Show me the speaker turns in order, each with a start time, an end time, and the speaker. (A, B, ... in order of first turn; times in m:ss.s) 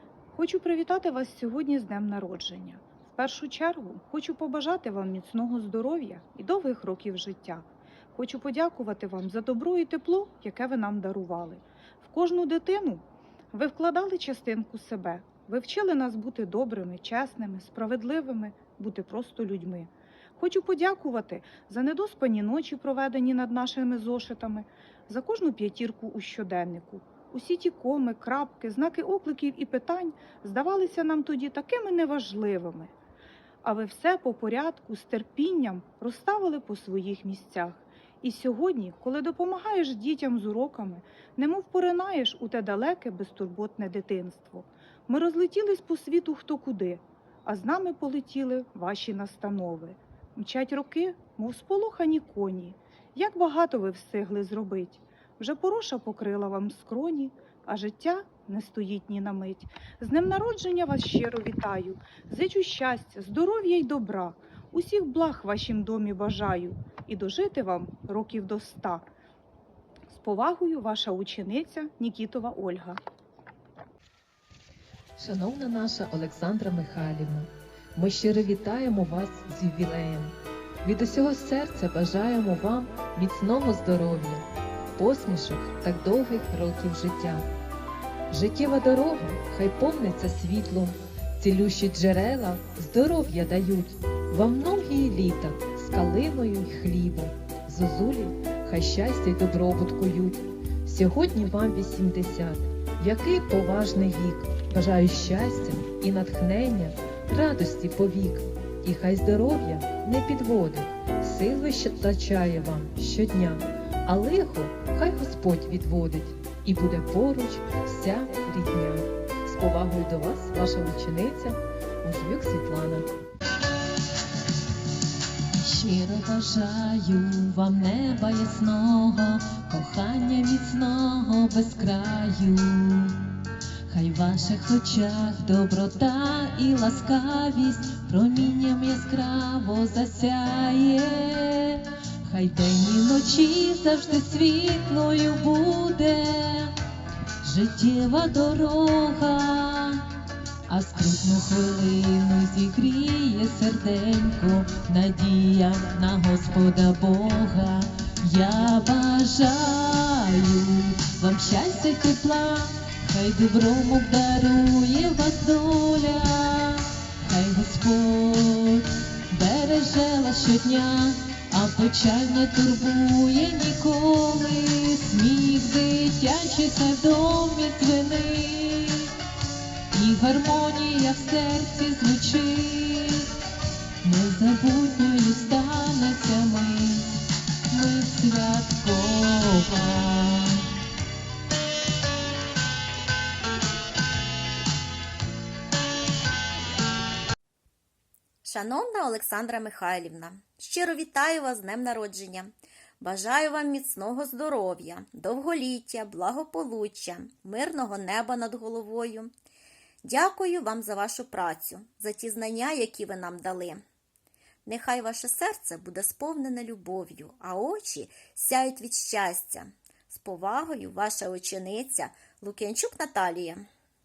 0:00.3-0:32.9 A
0:33.6-1:09.1 A
1:10.1-1:13.0 A
1:15.2-1:24.5 B
1:25.0-1:27.5 B
1:28.3-2:03.1 B
2:05.7-2:13.2 C
2:05.8-2:11.2 B
2:11.8-2:13.1 B
2:13.9-2:26.7 B
2:13.9-2:14.2 C
2:16.0-2:17.0 C
2:17.8-2:20.0 C
2:22.0-2:22.6 C
2:23.7-2:26.5 C
2:27.4-2:29.1 B
2:27.6-2:30.0 C
2:30.7-2:59.1 C
2:31.8-2:40.2 B
2:41.4-2:45.9 B
2:47.3-2:48.4 B
2:49.4-2:51.0 B
2:51.6-2:54.2 B
2:55.6-2:58.6 B
2:59.9-3:03.3 C
3:00.1-3:00.4 B
3:01.0-3:02.6 B
3:04.0-3:10.7 C
3:04.6-3:05.7 B
3:18.4-3:29.3 D
3:30.0-3:33.8 D
3:34.7-3:43.7 D